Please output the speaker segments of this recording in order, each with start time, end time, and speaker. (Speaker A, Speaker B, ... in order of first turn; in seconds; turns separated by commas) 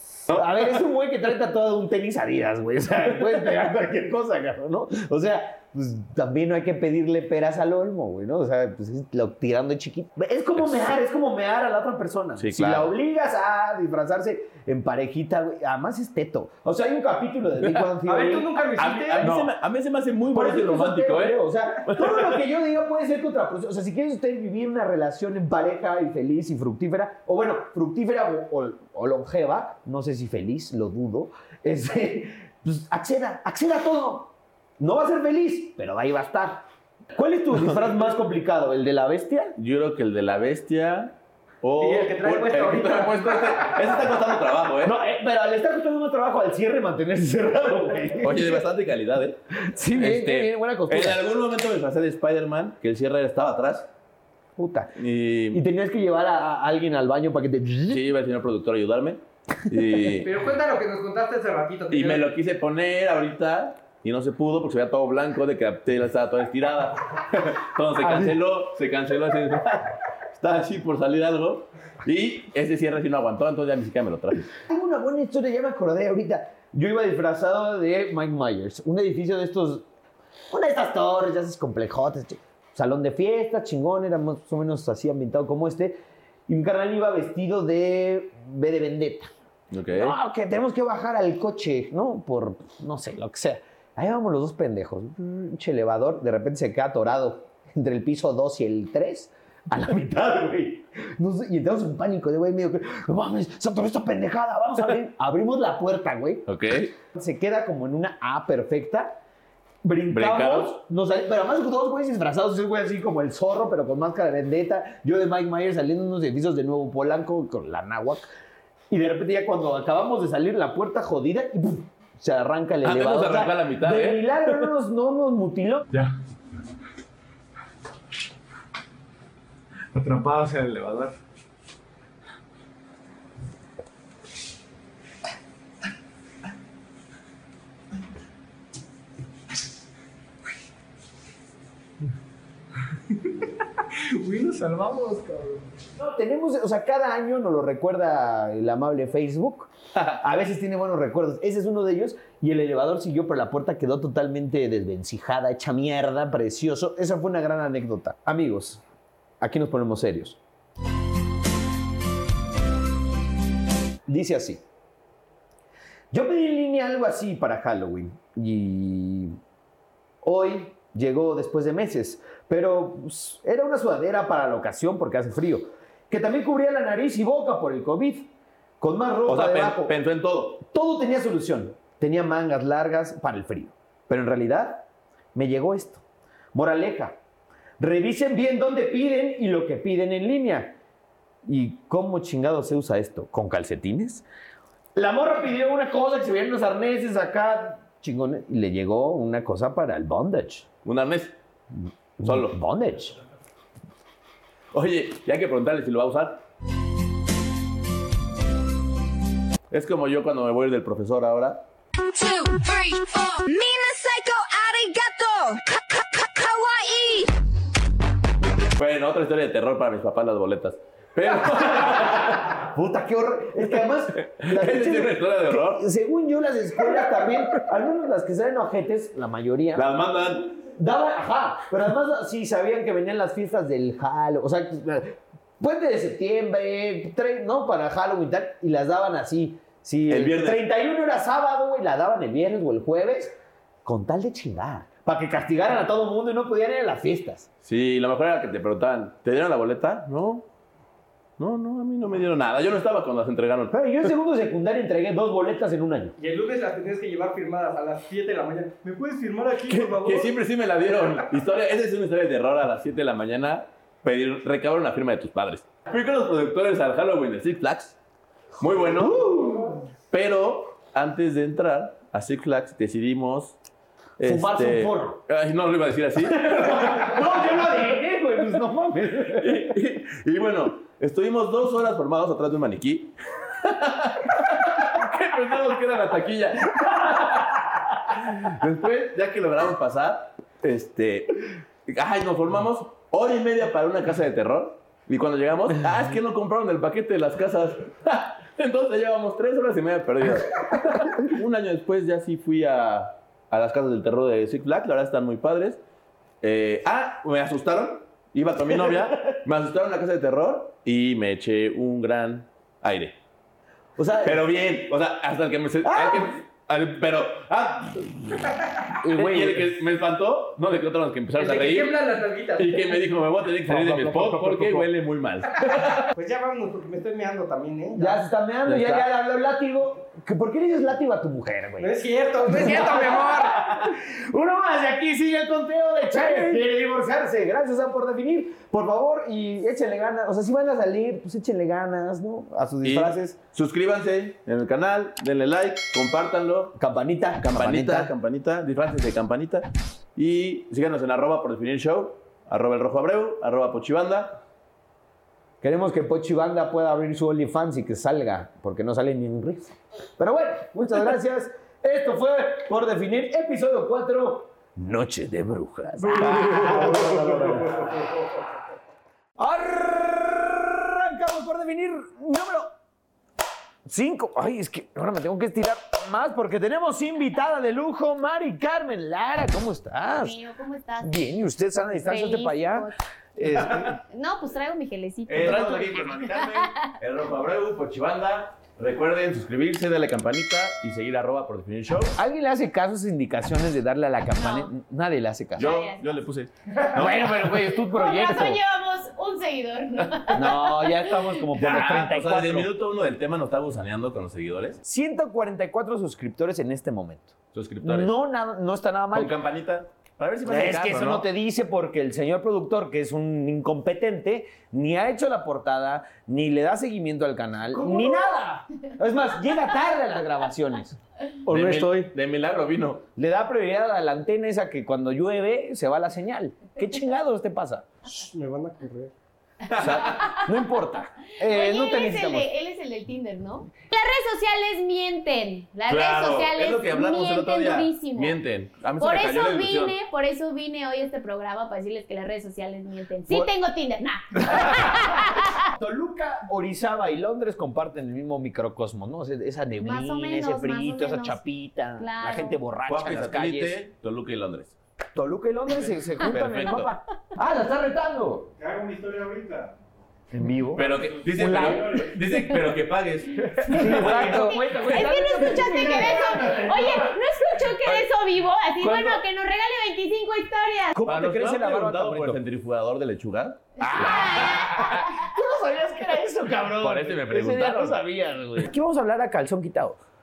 Speaker A: 0.3-18.6, Speaker B: 0.3-0.6, Speaker B: 12.4-12.9, Speaker C: 18.1-19.3, Speaker B: 18.8-22.4, Speaker A: 19.2-19.5, Speaker A: 20.3-39.6, Speaker B: 39.6-45.0, Speaker C: 41.8-44.0, Speaker A: 44.8-48.6, Speaker B: 48.2-49.4, Speaker A: 49.6-51.2, Speaker B: 49.9-53.9, Speaker A: 54.6-54.9, Speaker B: 55.0-55.6, Speaker A: 55.5-58.0, Speaker B: 57.9-60.3, Speaker C: 60.1-62.3, Speaker B: 61.9-74.5, Speaker A: 74.7-79.8, Speaker A: 80.5-89.3, Speaker B: 89.7-90.2, Speaker A: 89.9-106.5, Speaker B: 106.5-106.9, Speaker A: 107.1-109.2, Speaker A: 109.8-118.3, Speaker B: 110.1-110.8, Speaker A: 118.9-125.9, Speaker B: 122.8-124.7, Speaker B: 129.9-131.2, Speaker D: 143.9-145.7, Speaker A: 146.0-158.8, Speaker A: 159.4-160.4, Speaker A: 164.1-164.6, Speaker A: 166.1-169.4, Speaker A: 170.2-179.9, Speaker B: 179.3-180.6, Speaker A: 180.6-186.0, Speaker A: 186.5-187.2, Speaker A: 187.8-190.8, Speaker A: 191.4-194.2, Speaker A: 194.9-200.7, Speaker B: 200.8-201.4, Speaker A: 202.2-203.2, Speaker B: 202.2-202.6, Speaker B: 204.7-206.4, Speaker B: 209.7-211.7, Speaker E: 212.1-217.3, Speaker B: 218.7-222.6, Speaker A: 222.4-229.9, Speaker B: 224.2-225.9, Speaker B: 229.8-230.6, Speaker A: 230.8-243.3, Speaker B: 240.1-240.6, Speaker A: 243.8-247.5, Speaker B: 247.6-250.5, Speaker B: 251.4-253.8, Speaker A: 253.7-256.1, Speaker C: 256.2-260.2, Speaker D: 258.9-260.0, Speaker B: 259.7-268.0, Speaker B: 268.6-269.4, Speaker A: 269.0-269.8, Speaker B: 270.1-273.6, Speaker B: 274.2-277.4, Speaker A: 274.2-275.2, Speaker A: 276.3-279.7, Speaker B: 279.2-305.8, Speaker B: 306.4-313.2, Speaker A: 314.0-314.4, Speaker B: 314.2-322.0, Speaker A: 315.8-316.3, Speaker A: 319.0-319.7, Speaker C: 321.4-323.0, Speaker B: 322.6-326.1, Speaker A: 323.7-324.9, Speaker C: 326.1-328.2, Speaker A: 327.9-331.9, Speaker B: 328.7-329.1, Speaker C: 331.8-333.7, Speaker A: 332.5-343.4, Speaker B: 342.8-346.8, Speaker A: 346.8-348.1, Speaker B: 347.4-354.4, Speaker A: 355.6-367.8, Speaker D: 366.0-368.1, Speaker B: 366.2-366.5, Speaker A: 369.4-372.7, Speaker A: 373.9-380.4, Speaker F: 380.1-381.1, Speaker A: 381.0-384.0, Speaker F: 381.9-383.0, Speaker F: 384.0-386.9, Speaker B: 385.3-392.2, Speaker A: 385.4-385.7, Speaker A: 392.2-395.8, Speaker F: 394.4-394.7, Speaker B: 395.6-397.8, Speaker F: 395.6-396.1, Speaker A: 396.9-398.6, Speaker F: 397.8-401.4, Speaker A: 400.3-402.7, Speaker B: 401.6-404.8, Speaker A: 404.8-409.4, Speaker B: 407.5-408.1, Speaker B: 409.1-411.3, Speaker A: 410.5-421.0, Speaker F: 417.8-418.4, Speaker C: 421.5-422.1, Speaker B: 421.5-423.0, Speaker A: 423.2-427.9, Speaker C: 428.1-429.1, Speaker B: 429.7-430.3, Speaker A: 429.8-432.5, Speaker F: 429.9-430.5, Speaker F: 431.4-438.4, Speaker B: 435.9-439.9, Speaker F: 439.0-445.6, Speaker A: 444.4-445.2, Speaker A: 445.7-453.8, Speaker F: 449.8-451.4, Speaker F: 452.0-452.6, Speaker B: 452.9-454.8, Speaker A: 455.1-458.5, Speaker B: 456.2-456.9, Speaker D: 458.6-459.7, Speaker A: 460.3-460.9, Speaker B: 460.8-465.1, Speaker D: 460.8-462.2, Speaker A: 461.4-461.8, Speaker C: 461.4-461.7, Speaker A: 463.7-466.9, Speaker F: 463.8-471.0, Speaker C: 463.9-464.4, Speaker D: 466.5-466.7, Speaker A: 468.8-469.2, Speaker A: 470.9-472.4, Speaker B: 471.1-475.0, Speaker A: 473.8-480.0, Speaker F: 473.8-475.3, Speaker B: 476.8-478.0